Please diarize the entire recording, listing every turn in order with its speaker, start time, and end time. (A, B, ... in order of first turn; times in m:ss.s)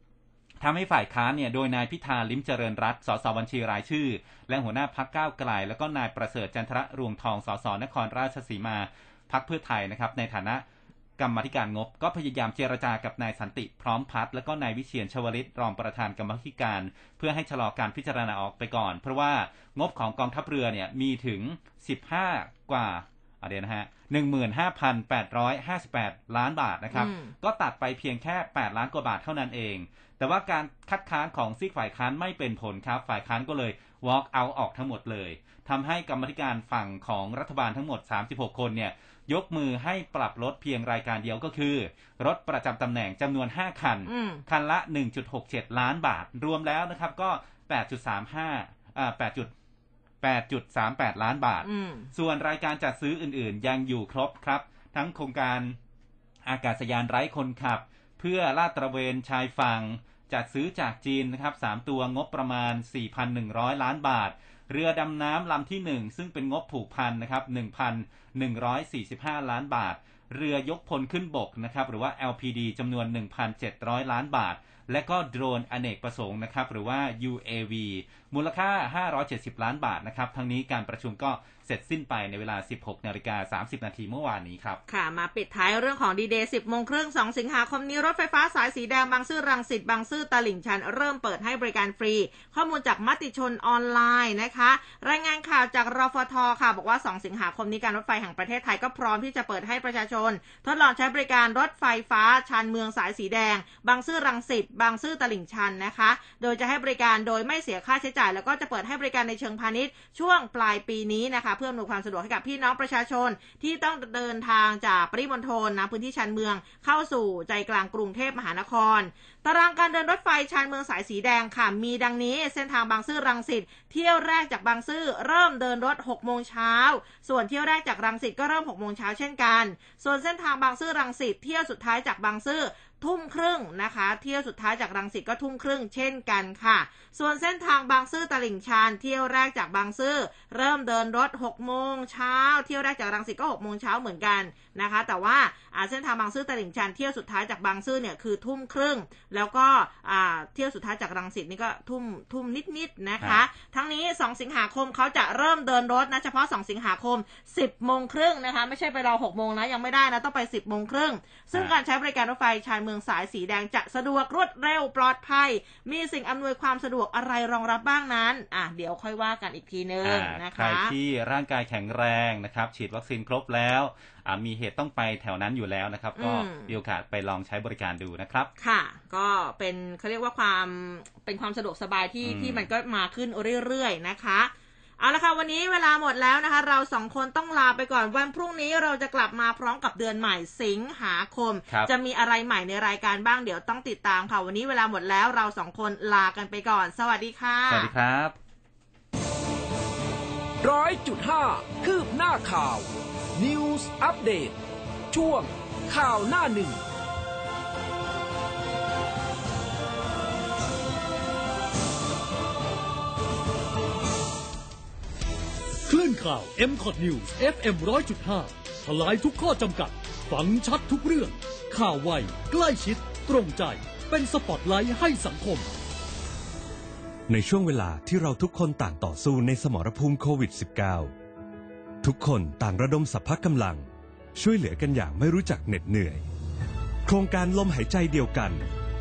0:00.6-0:10.6 A
0:11.2-0:49.5 A
0:26.9-0:27.3 B
0:44.1-0:44.4 B
0:50.2-0:55.8 A
0:51.6-0:52.1 B
0:56.5-1:24.8 A
1:24.9-2:50.9 B
2:50.0-2:58.5 A
2:56.2-2:56.8 B
2:58.6-3:17.9 B
3:02.2-3:02.6 A
3:11.7-3:11.9 A
3:17.7-3:18.4 A
3:20.6-3:24.6 C
3:25.1-3:26.8 C
3:35.9-3:45.7 D
3:47.3-3:51.1 E
3:52.0-3:53.8 E
3:54.4-3:56.2 E
3:57.1-3:58.7 E